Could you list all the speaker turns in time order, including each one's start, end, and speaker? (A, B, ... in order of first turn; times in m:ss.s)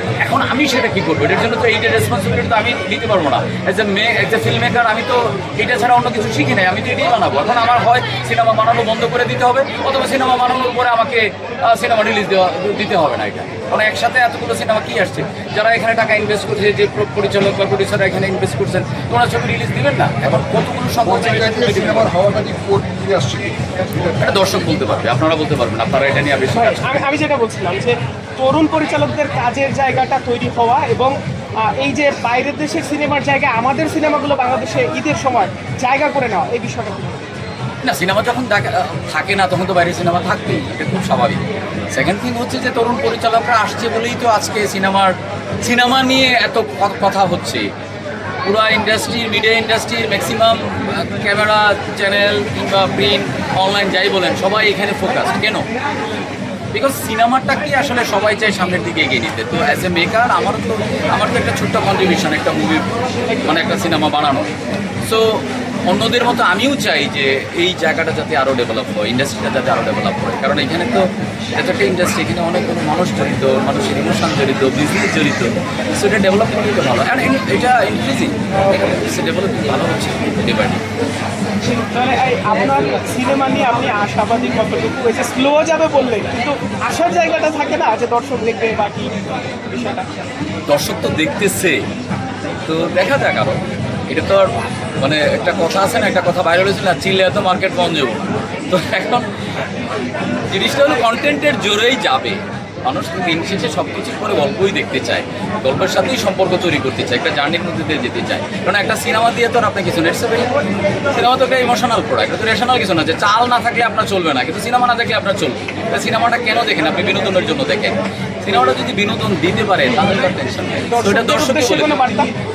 0:00.2-0:22.2 A
0:21.3-0:24.0 B
0:24.2-0:27.0 A
0:26.5-0:37.3 C
0:37.8-0:47.7 A
0:48.4-0:55.6 A
0:56.7-1:04.5 A
1:05.1-1:20.8 A
1:21.6-1:29.1 C
1:29.7-1:30.1 C
1:30.7-1:31.8 A
1:32.7-1:34.5 A
1:35.0-1:39.3 A
1:40.5-1:50.5 A
1:51.1-2:01.9 A
2:00.9-2:02.3 C